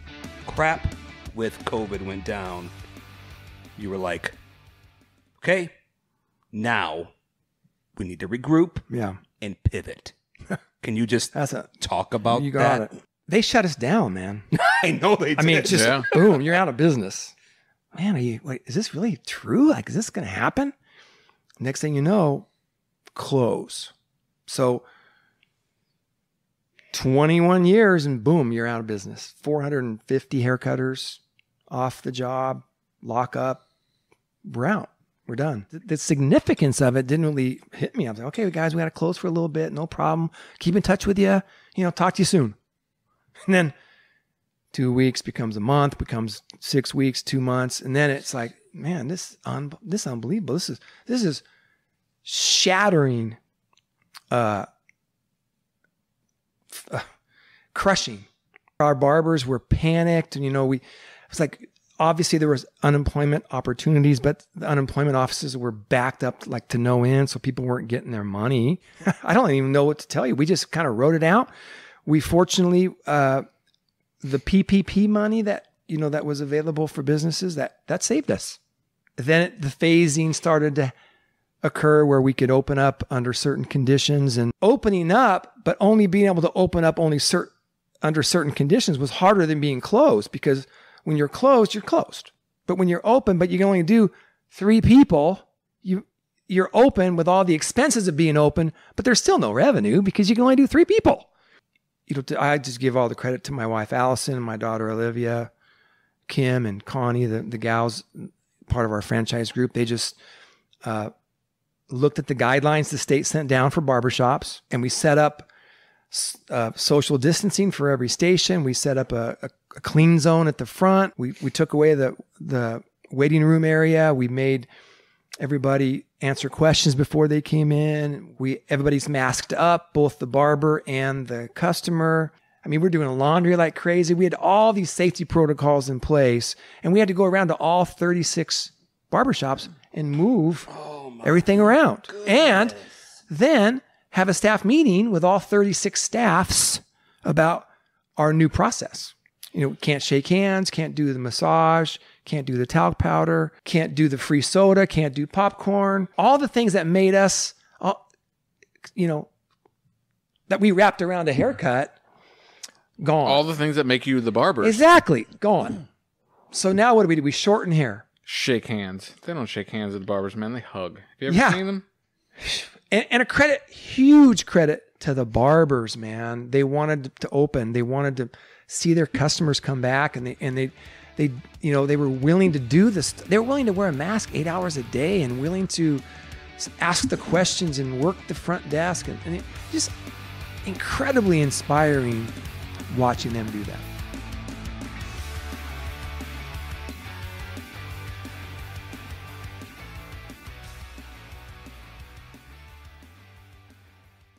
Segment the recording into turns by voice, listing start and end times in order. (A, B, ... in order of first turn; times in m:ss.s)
0:00.4-0:02.7 A
0:03.8-0:04.4 A
0:05.4-0:05.7 A
0:06.5-0:07.1 A
0:08.0-0:08.8 A
0:08.9-0:09.2 B
0:09.4-0:10.2 A
0:10.8-0:12.9 A
0:11.3-0:11.7 B
0:12.3-0:14.5 B
0:14.5-0:16.4 A
0:15.4-0:17.3 B
0:15.7-0:16.1 C
0:17.9-0:20.7 B
0:21.6-0:22.5 B
0:23.2-0:23.9 B
0:24.5-0:24.8 B
0:26.9-0:33.6 B
0:34.5-0:42.6 B
0:43.5-0:43.7 B
0:44.7-0:51.4 B
0:52.2-0:53.4 B
0:54.3-0:54.7 B
0:56.7-0:57.1 B
0:57.7-0:58.3 B
0:58.8-1:11.5 B
1:12.0-1:13.4 B
1:14.2-1:18.6 B
1:19.2-1:21.0 B
1:21.6-1:27.5 B
1:28.0-1:41.3 B
1:42.1-1:45.5 B
1:46.3-1:50.2 B
1:50.8-1:51.1 B
1:51.9-1:55.5 B
1:56.1-2:04.7 B
2:05.4-2:20.7 B
2:20.7-2:21.5 A
2:21.2-2:38.0 B
2:22.1-2:22.8 A
2:39.0-2:39.3 B
2:40.5-2:42.0 B
2:43.0-2:43.4 B
2:43.2-2:44.8 C
2:44.6-2:45.8 B
2:46.5-2:48.0 B
2:48.3-2:51.8 C
2:51.3-2:51.6 B
2:52.4-3:06.0 B
3:06.6-3:09.9 B
3:10.6-3:12.4 B
3:12.9-3:13.9 B